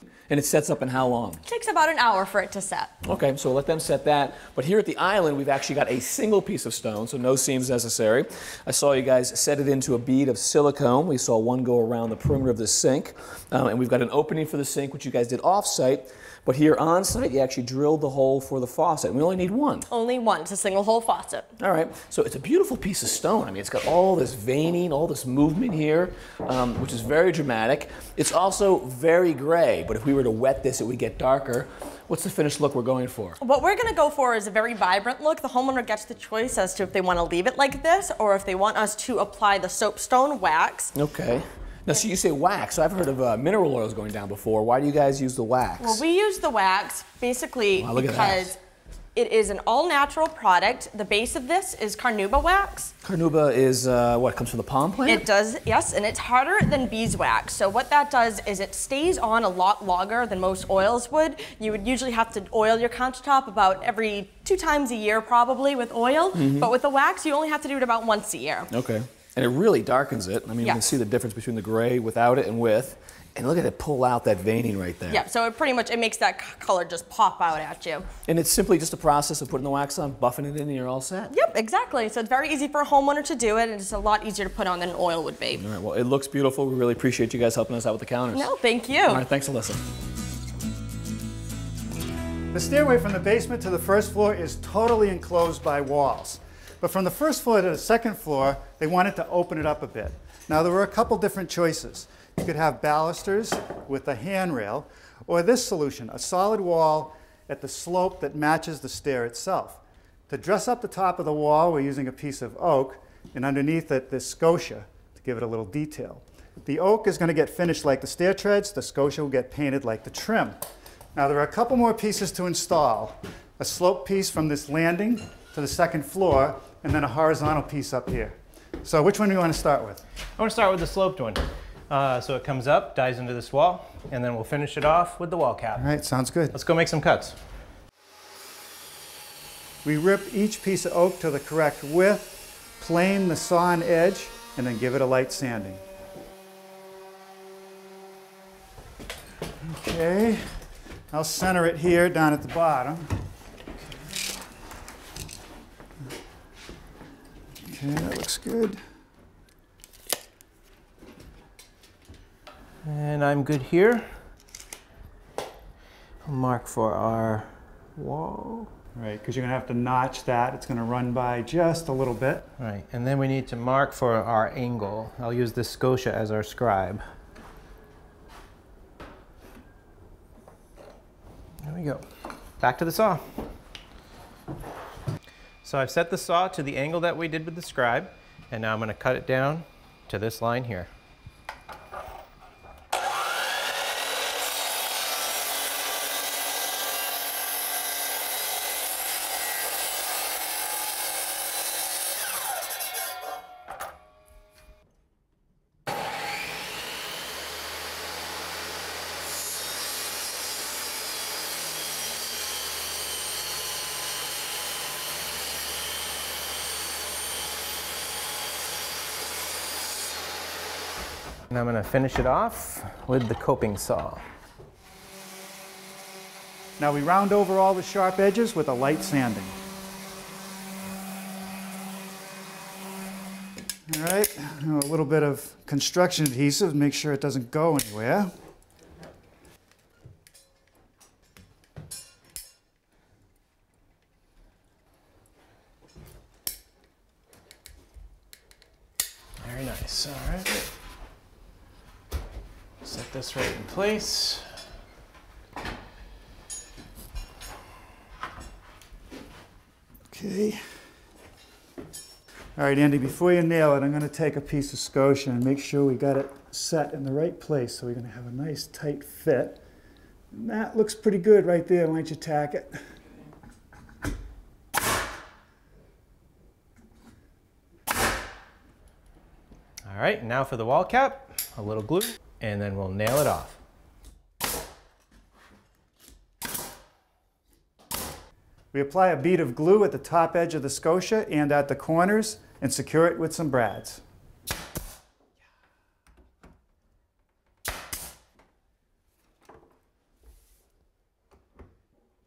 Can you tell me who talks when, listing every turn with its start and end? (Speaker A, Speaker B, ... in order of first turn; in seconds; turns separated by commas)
Speaker A: 0.3-1.4, Speaker B: 1.4-2.9, Speaker A: 3.0-19.9, Speaker B: 19.9-21.5, Speaker A: 21.6-33.4, Speaker B: 33.4-41.0, Speaker A: 41.0-46.0, Speaker B: 45.8-48.6, Speaker A: 47.8-48.5, Speaker B: 49.1-52.9, Speaker A: 53.0-55.3, Speaker B: 55.0-68.7, Speaker A: 66.3-66.7, Speaker A: 68.7-75.2, Speaker B: 70.6-70.9, Speaker B: 75.1-78.1, Speaker A: 78.3-81.3, Speaker B: 81.3-85.7, Speaker A: 85.5-88.5, Speaker B: 88.3-89.2, Speaker A: 89.1-89.8, Speaker C: 92.5-120.6, Speaker C: 121.2-130.0, Speaker D: 130.4-135.9, Speaker C: 135.8-136.6, Speaker D: 136.5-137.4, Speaker C: 139.8-145.8, Speaker C: 149.6-150.6, Speaker C: 151.1-153.1, Speaker C: 157.6-158.8, Speaker D: 162.8-164.2, Speaker D: 166.2-168.7, Speaker C: 169.0-172.5, Speaker D: 172.6-177.1, Speaker D: 181.6-182.1, Speaker D: 182.6-183.4, Speaker D: 185.6-190.9, Speaker D: 221.5-224.2, Speaker C: 226.8-229.6, Speaker C: 233.9-238.3, Speaker D: 249.4-250.7, Speaker D: 252.8-254.5, Speaker C: 260.1-260.6, Speaker C: 262.6-269.6, Speaker C: 270.3-272.8, Speaker D: 279.9-283.6, Speaker C: 288.7-294.0